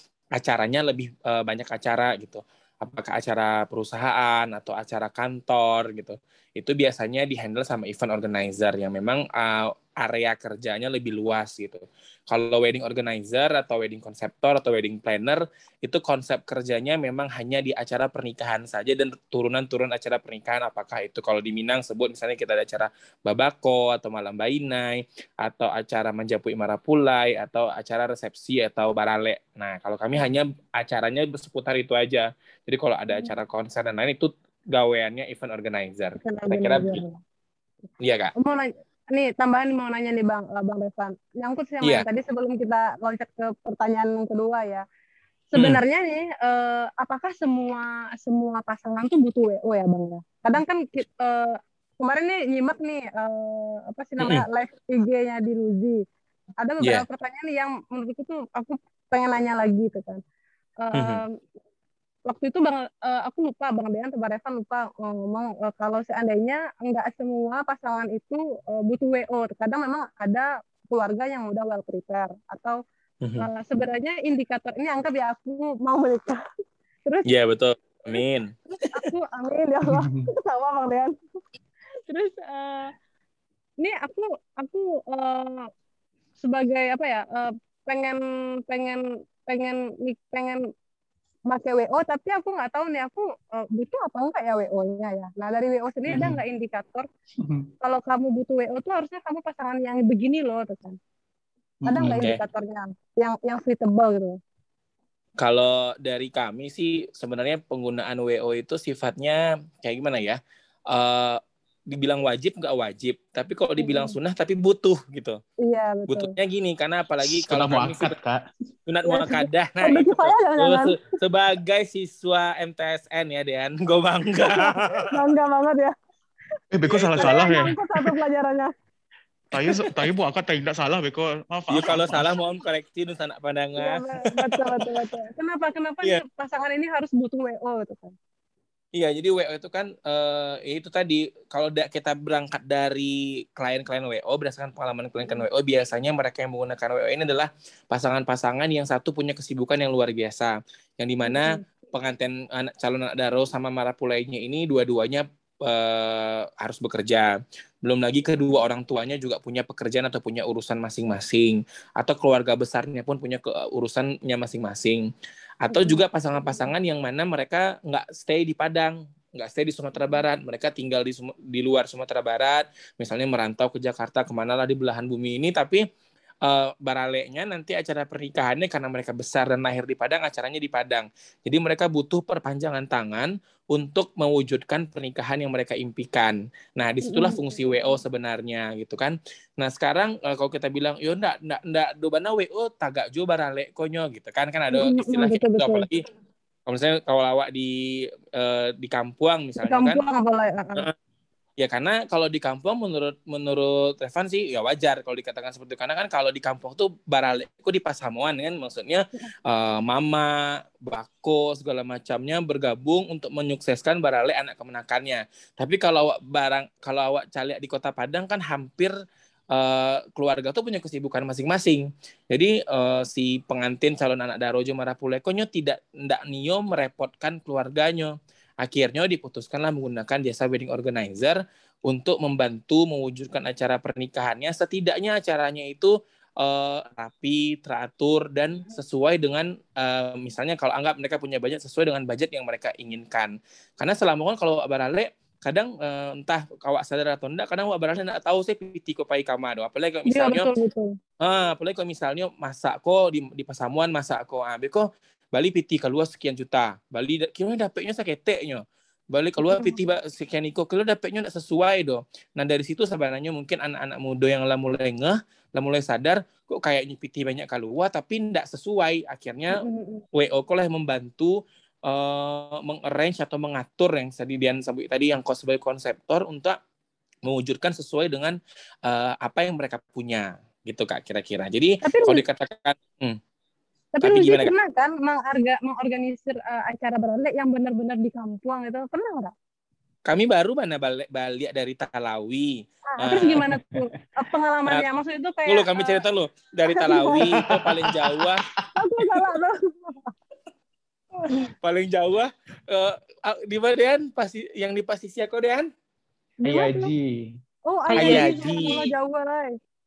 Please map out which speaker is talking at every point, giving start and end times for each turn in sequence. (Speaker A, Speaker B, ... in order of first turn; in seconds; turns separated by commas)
Speaker A: 0.3-37.0, Speaker B: 36.2-37.2, Speaker A: 38.0-38.3, Speaker B: 38.4-44.8, Speaker B: 45.5-56.0, Speaker A: 54.2-54.4, Speaker B: 56.6-60.2, Speaker B: 60.8-61.4, Speaker A: 60.9-61.2, Speaker B: 62.3-72.8, Speaker A: 73.2-73.5, Speaker B: 73.4-76.4, Speaker A: 77.2-78.5, Speaker B: 78.9-81.1, Speaker C: 79.9-80.3, Speaker B: 82.1-82.9, Speaker B: 83.8-85.7, Speaker B: 86.4-90.6, Speaker B: 91.5-97.1, Speaker C: 96.1-96.4, Speaker C: 97.4-97.7, Speaker B: 97.8-101.0, Speaker C: 101.8-102.3, Speaker B: 101.8-104.4, Speaker A: 102.0-102.4, Speaker A: 105.4-110.4, Speaker A: 110.9-115.4, Speaker B: 113.8-114.1, Speaker B: 115.6-116.3, Speaker A: 116.1-118.1, Speaker C: 117.2-118.4, Speaker A: 118.9-125.2, Speaker B: 119.1-121.1, Speaker B: 124.4-125.9, Speaker C: 126.7-127.7, Speaker A: 126.8-127.5, Speaker B: 127.2-128.7, Speaker C: 129.5-132.3, Speaker A: 131.7-135.0, Speaker B: 133.8-138.2, Speaker A: 138.9-157.3, Speaker B: 151.2-151.6, Speaker A: 157.8-165.0, Speaker A: 165.6-175.8, Speaker B: 165.7-166.0, Speaker A: 176.4-196.0, Speaker B: 187.0-187.9, Speaker B: 194.7-195.9, Speaker A: 196.7-200.0, Speaker B: 199.6-200.8, Speaker A: 201.6-218.9, Speaker A: 219.5-250.5, Speaker B: 250.1-250.9, Speaker A: 251.2-269.6, Speaker B: 259.4-259.8, Speaker B: 269.5-270.0, Speaker A: 270.1-276.6, Speaker A: 277.2-283.2, Speaker B: 281.8-282.2, Speaker B: 284.0-289.3, Speaker A: 284.0-284.5, Speaker A: 290.1-293.5, Speaker B: 292.9-296.0, Speaker C: 293.6-293.8, Speaker A: 295.4-298.5, Speaker B: 296.7-297.3, Speaker C: 297.3-298.7, Speaker B: 298.7-300.1, Speaker A: 301.5-305.7, Speaker B: 306.4-306.9, Speaker C: 306.4-307.3, Speaker B: 307.7-309.5, Speaker A: 307.9-308.9, Speaker C: 308.0-308.3